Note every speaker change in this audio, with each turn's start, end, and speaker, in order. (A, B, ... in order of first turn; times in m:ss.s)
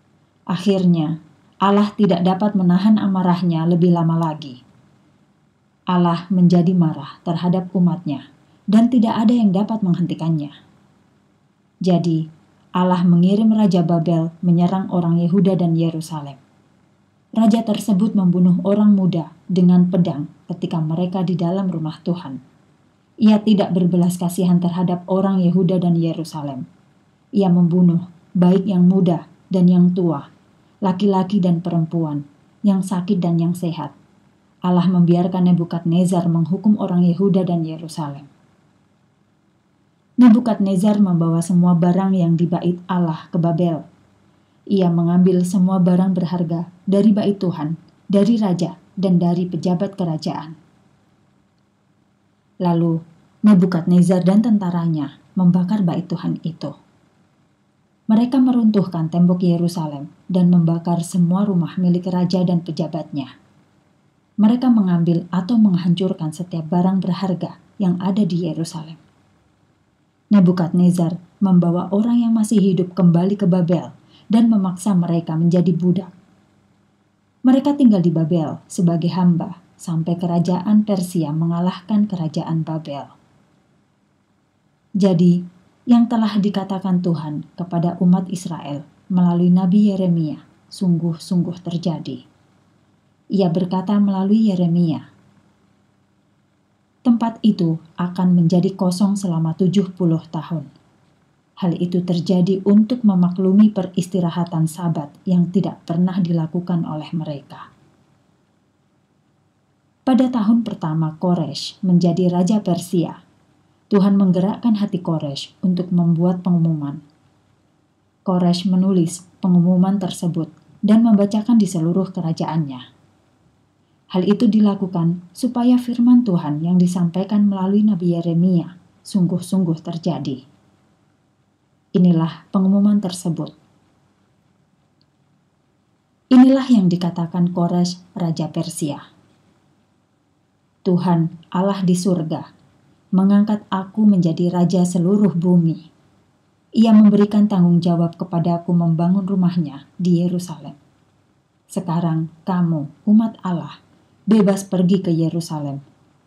0:00.5-0:04.6 A
0:05.9-0:10.5 A
0:11.8-0:12.2 A
0:12.8-0:16.4 A
0:17.4-0:22.4 A
0:23.2-0:26.6 A
0:27.4-0:30.3 A
0:30.8-0:33.9 A
0:34.7-0:38.3 A
0:40.2-0:43.8 A
0:44.7-0:50.6 A
0:52.6-0:56.7 A
0:58.1-1:03.3 A
1:04.4-1:09.0 A
1:10.3-1:16.1 A
1:17.5-1:23.1 A
1:25.0-1:25.4 A
1:25.9-1:32.2 A
1:33.4-1:35.0 A
1:37.1-1:40.7 A
1:41.6-1:47.7 A
1:50.1-1:53.2 A
1:53.9-1:57.0 A
1:58.3-2:02.8 A
2:04.1-2:10.4 A
2:12.0-2:13.5 A
2:16.3-2:19.0 A
2:20.8-2:22.5 A
2:23.2-2:25.8 A
2:26.8-2:30.8 A
2:31.7-2:33.8 A
2:34.3-2:35.8 A